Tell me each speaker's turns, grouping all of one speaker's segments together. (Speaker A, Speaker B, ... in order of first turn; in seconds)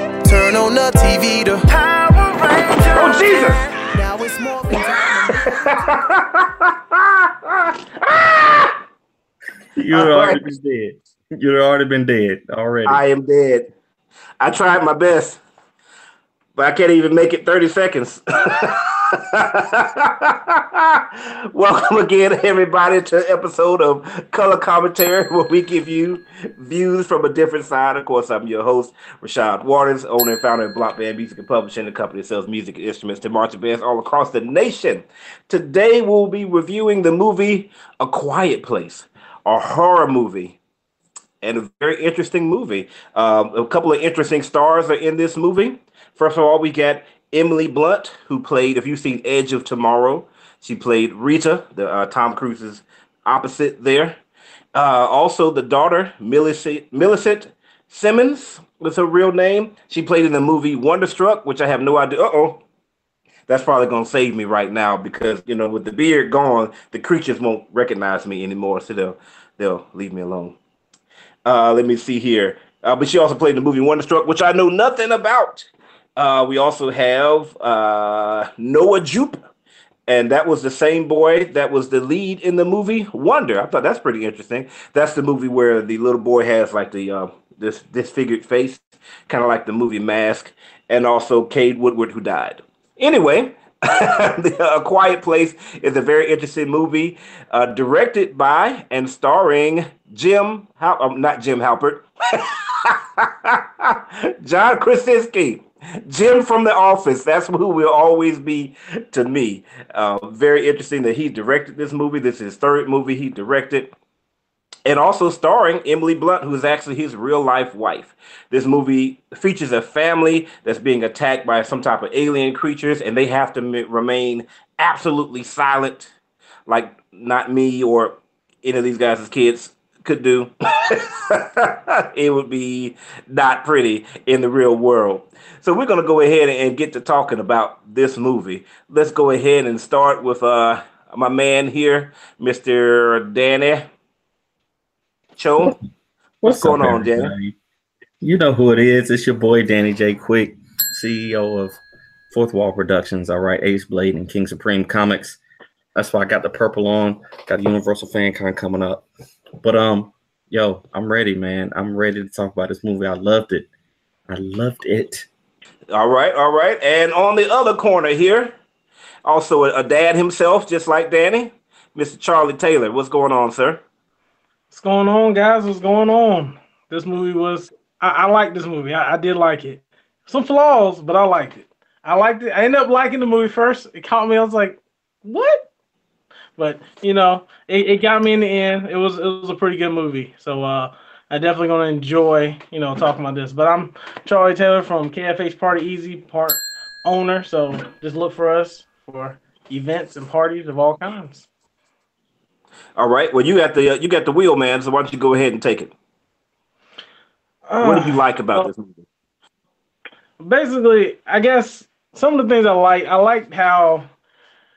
Speaker A: 0.2-1.6, 3.9-5.9
Speaker B: 1.7-3.7
Speaker C: 2.9-3.7, 4.8-8.8, 9.9-10.4, 12.9-13.7, 14.4-15.4, 16.6-40.6, 41.4-54.2, 54.7-62.6, 63.5-70.5, 71.5-79.4, 80.1-113.9, 114.9-126.1, 126.7-143.9, 145.4-145.8, 146.4-147.3, 165.9-168.6, 169.2-173.8, 203.0-205.9, 207.8-209.0
Speaker D: 9.8-13.0, 146.4-147.5, 148.2-151.8, 152.3-155.4, 155.9-159.1, 159.6-163.7, 164.3-165.3
Speaker E: 174.7-185.7, 186.6-201.5, 207.7-208.7, 210.4-214.1